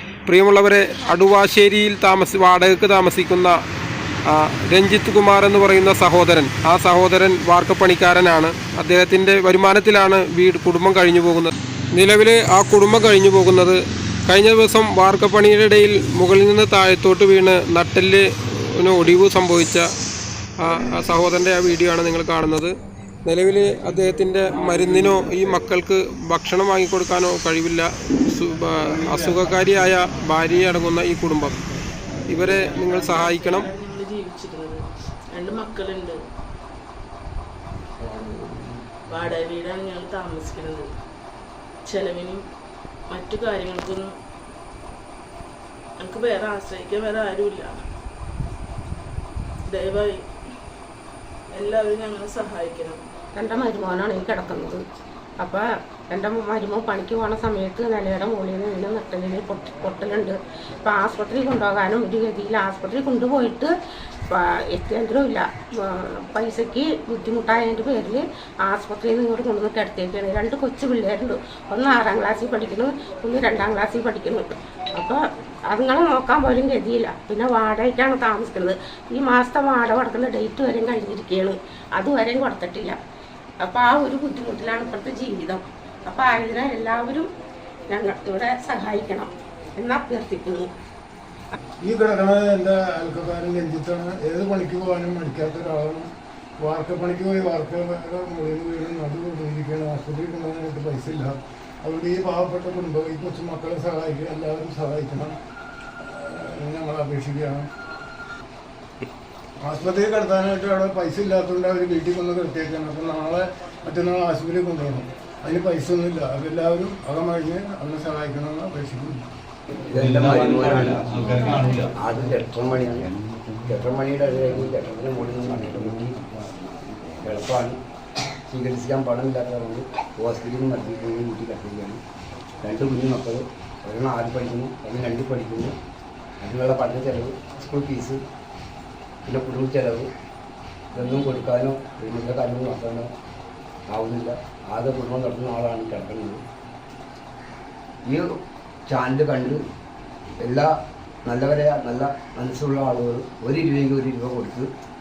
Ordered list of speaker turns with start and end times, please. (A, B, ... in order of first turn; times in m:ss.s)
0:00.3-0:03.6 A
0:04.3-0:19.9 A
0:20.6-0:22.7 A
0:23.2-0:31.6 A
0:32.3-0:33.7 A
0:33.2-0:36.2 B
0:38.1-0:38.6 C
0:39.1-0:40.9 B
0:41.8-0:42.4 B
0:43.1-0:44.1 B
0:46.0-0:47.8 B
0:49.7-0:50.3 B
0:51.5-0:53.0 B
0:53.4-0:54.8 D
0:55.4-1:03.7 D
1:04.3-1:23.0 D
1:23.6-1:27.3 D
1:27.9-1:30.7 D
1:31.8-1:45.4 E
1:46.0-1:47.7 E
1:49.6-1:59.2 E
1:59.9-2:07.8 C
2:08.5-2:12.0 C
2:12.6-2:15.7 C
2:16.4-2:18.2 C
2:19.3-2:20.1 C
2:20.9-2:23.1 C
2:23.9-2:26.4 C
2:28.1-2:28.4 C
2:28.9-2:29.6 C
2:30.4-2:34.7 C